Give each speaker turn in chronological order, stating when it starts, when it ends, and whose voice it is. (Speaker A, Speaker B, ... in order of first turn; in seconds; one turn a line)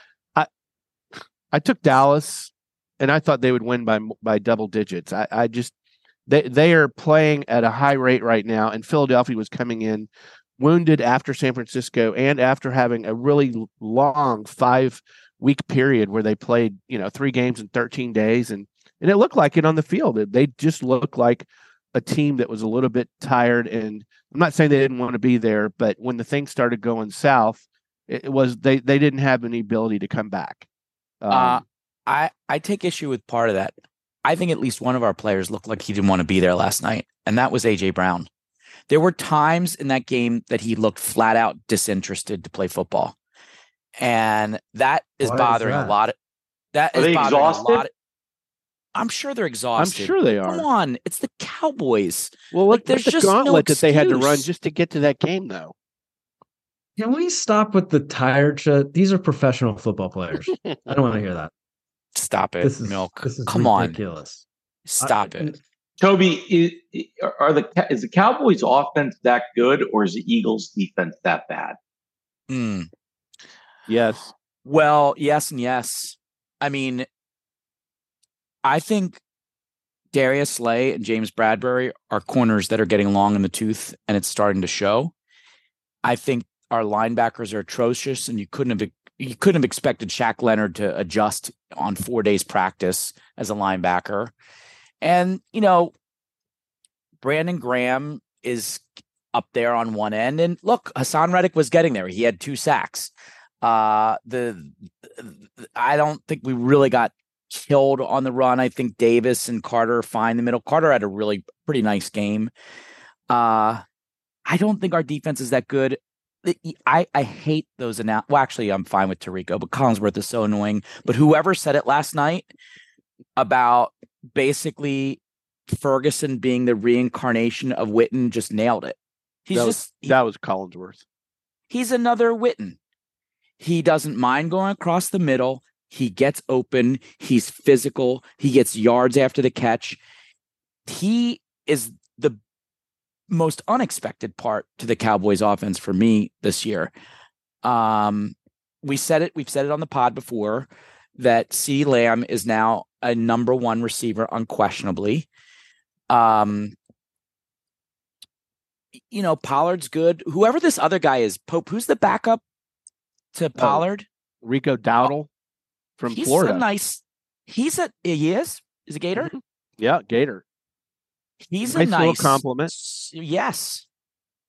Speaker A: 1.5-5.7
Speaker A: 6.3-30.7
Speaker A: 31.2-31.6
Speaker B: 31.3-38.3
Speaker B: 38.9-43.1
Speaker B: 44.0-46.1
Speaker C: 45.2-46.0
Speaker B: 46.7-47.9
Speaker D: 46.9-47.8
Speaker B: 48.9-54.5
Speaker A: 49.8-50.6
Speaker A: 52.5-55.7
Speaker C: 57.0-61.5
Speaker B: 62.1-64.0
Speaker C: 62.6-64.4
Speaker B: 64.8-65.5
Speaker C: 65.0-65.6
Speaker D: 66.0-71.8
Speaker B: 72.5-72.9
Speaker A: 73.9-74.3
Speaker B: 74.6-77.1
Speaker B: 78.6-79.2
Speaker B: 80.1-85.1
Speaker B: 86.0-94.3
Speaker B: 95.0-95.9
Speaker B: 97.2-112.5
Speaker B: 113.3-113.8
Speaker B: 114.5-122.5
Speaker B: 123.4-130.1
Speaker A: 129.5-131.0
Speaker B: 131.7-132.8
Speaker B: 133.6-140.0
Speaker B: 140.9-142.4
Speaker B: 143.3-146.9
Speaker B: 147.6-155.3
Speaker B: 156.1-156.7
Speaker B: 159.1-162.4
Speaker B: 163.3-164.1
Speaker A: 163.6-163.8
Speaker A: 164.4-165.3
Speaker A: 166.0-166.6
Speaker B: 166.1-169.3
Speaker A: 169.2-170.4
Speaker B: 171.4-173.8
Speaker A: 171.6-172.7